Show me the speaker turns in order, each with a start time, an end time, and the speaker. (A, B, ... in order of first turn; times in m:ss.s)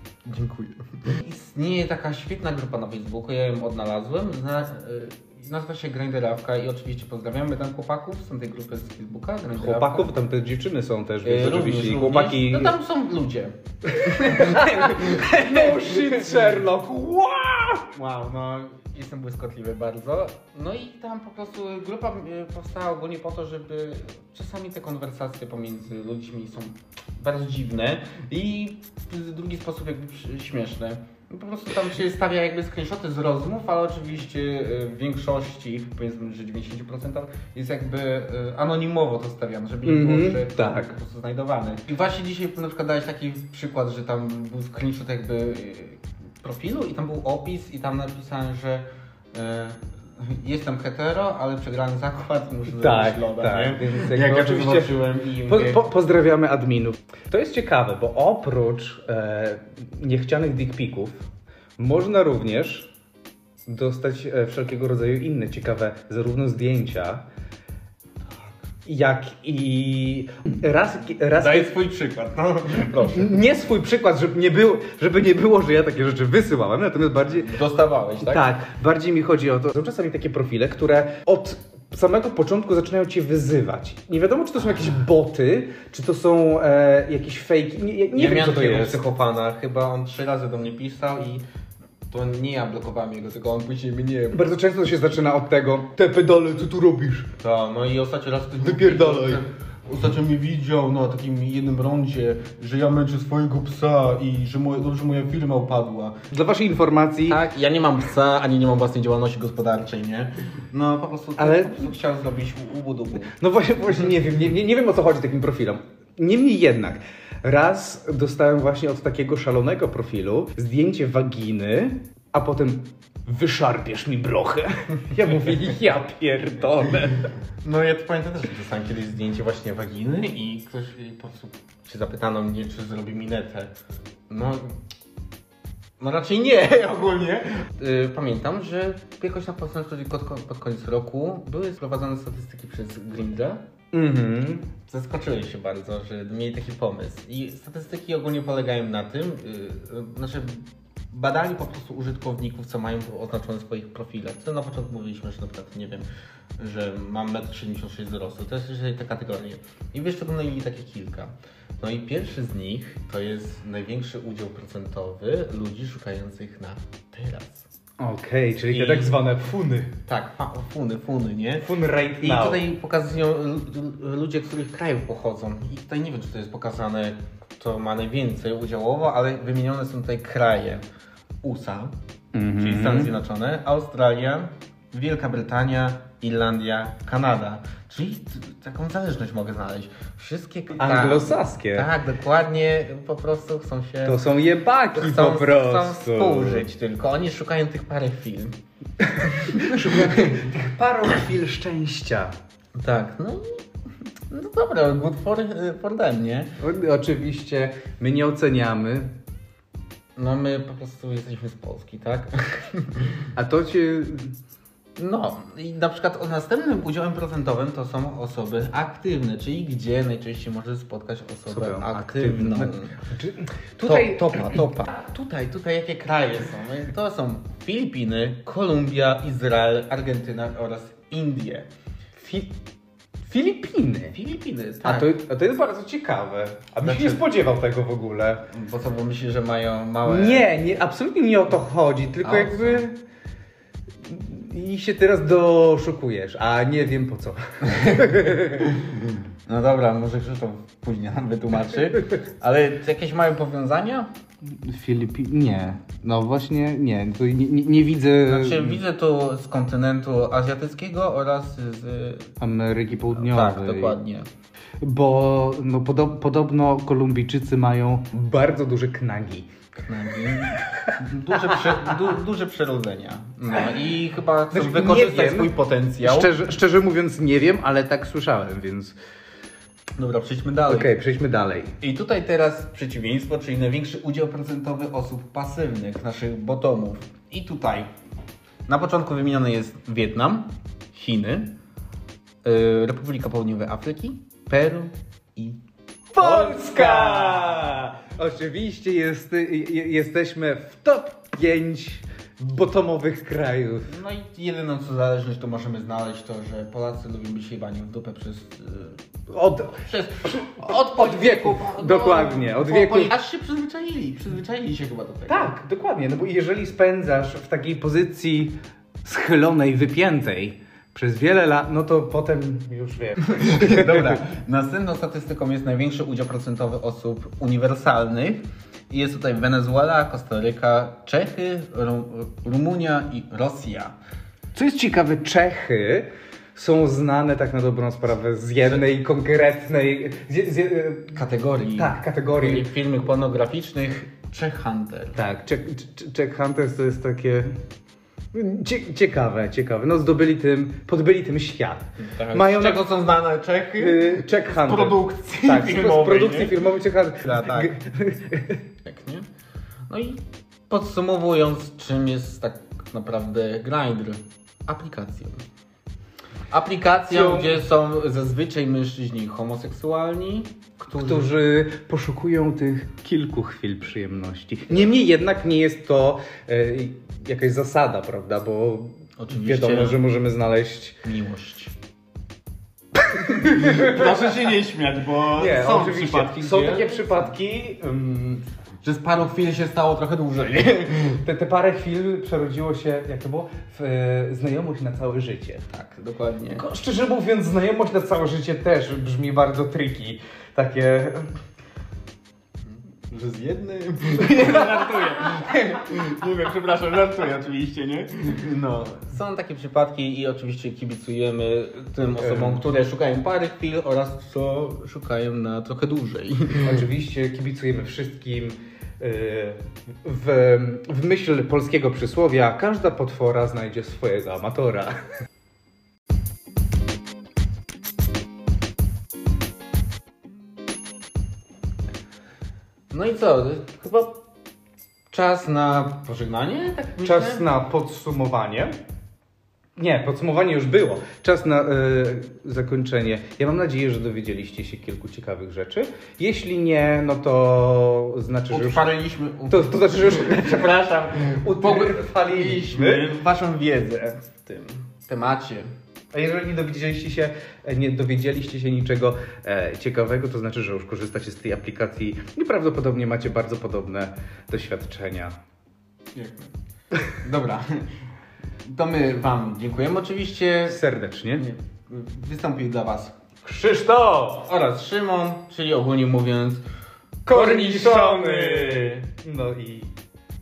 0:00.2-0:10.1 A
0:09.6-0:12.7 B
0:11.2-0:16.4 A
0:13.9-0:17.9 B
0:17.9-0:55.8 A
0:39.8-0:40.9 B
0:52.7-0:54.9 B
0:55.4-1:01.2 B
1:01.8-1:02.9 B
1:03.7-1:07.2 B
1:08.8-1:11.7 B
1:11.4-1:13.4 A
1:13.0-1:17.5 B
1:17.3-1:18.5 A
1:18.2-1:29.0 B
1:28.1-1:31.4 A
1:32.1-1:34.4 A
1:34.3-1:37.3 B
1:37.4-1:46.2 A
1:38.6-1:39.4 B
1:46.3-1:47.4 B
1:47.3-1:53.3 A
1:51.4-1:51.9 B
1:53.3-2:07.3 B
2:07.6-2:13.7 A
2:14.3-2:14.8 A
2:16.0-2:23.6 A
2:23.9-2:24.7 B
2:24.9-2:36.1 A
2:36.6-2:47.7 A
2:48.0-2:49.9 B
2:48.7-2:49.2 A
2:50.0-2:51.7 A
2:51.6-2:52.6 B
2:52.2-3:00.8 A
3:01.4-3:01.9 A
3:02.3-3:03.1 B
3:02.6-3:14.2 A
3:10.8-3:11.9 B
3:14.0-3:16.7 B
3:14.9-3:18.5 A
3:19.0-3:22.3 B
3:19.2-3:20.4 A
3:22.8-3:23.6 A
3:24.3-3:26.5 A
3:26.6-3:29.1 B
3:30.2-3:33.2 A
3:33.4-3:34.3 B
3:35.0-3:43.0 A
3:41.5-3:44.6 B
3:43.8-3:51.7 A
3:52.2-3:52.5 B
3:53.2-3:54.2 B
3:54.1-3:55.1 A
3:54.8-3:58.4 B
3:56.8-3:57.2 A
3:58.5-4:00.5 A
4:00.0-4:02.9 B
4:02.2-4:02.8 A
4:04.0-4:08.7 B
4:09.5-4:14.1 A
4:14.6-4:18.8 B
4:18.2-4:22.3 A
4:22.4-4:24.0 B
4:23.1-4:24.3 A
4:24.8-4:29.5 B
4:29.8-4:36.3 A
4:30.4-4:30.9 B
4:34.5-4:35.5 B
4:36.0-4:38.9 B
4:40.0-4:40.9 A
4:40.7-4:41.7 B
4:41.8-4:47.9 A
4:48.7-4:51.5 A
4:52.4-4:55.6 A
4:56.1-5:03.9 B
4:56.2-4:57.7 A
5:03.9-5:09.0 A
5:09.3-5:13.1 B
5:09.8-5:15.5 A
5:15.3-5:24.2 B
5:23.2-5:34.0 A
5:34.5-5:41.2 B
5:41.1-5:45.2 A
5:41.8-5:42.7 B
5:45.2-5:47.5 B
5:48.3-5:52.8 B
5:52.0-5:56.6 A
5:53.8-5:58.6 B
5:57.2-5:57.8 A
5:58.8-5:59.2 A
5:59.9-6:05.4 A
6:06.5-6:11.3 A
6:07.1-6:07.6 B
6:10.9-6:21.0 B
6:19.2-6:20.0 A
6:21.0-6:21.7 A
6:23.1-6:24.3 B
6:23.3-6:27.2 A
6:25.4-6:28.4 B
6:28.8-6:31.2 A
6:31.2-6:35.6 B
6:35.7-6:36.6 A
6:36.5-6:41.2 B
6:42.6-6:56.8 A
6:52.2-6:52.6 B
6:56.6-7:04.9 B
7:12.9-7:14.2 A
7:15.1-7:17.4 A
7:17.0-7:18.7 B
7:19.8-7:28.9 B
7:28.5-7:35.6 A
7:29.5-7:33.0 B
7:36.1-7:45.3 B
7:46.1-7:46.5 A
7:47.1-7:47.8 A
7:48.6-7:50.8 A
7:50.7-7:51.4 B
7:51.3-7:53.1 A
7:53.4-7:54.4 B
7:54.4-7:56.6 A
7:57.2-7:59.9 B
7:57.3-7:59.0 A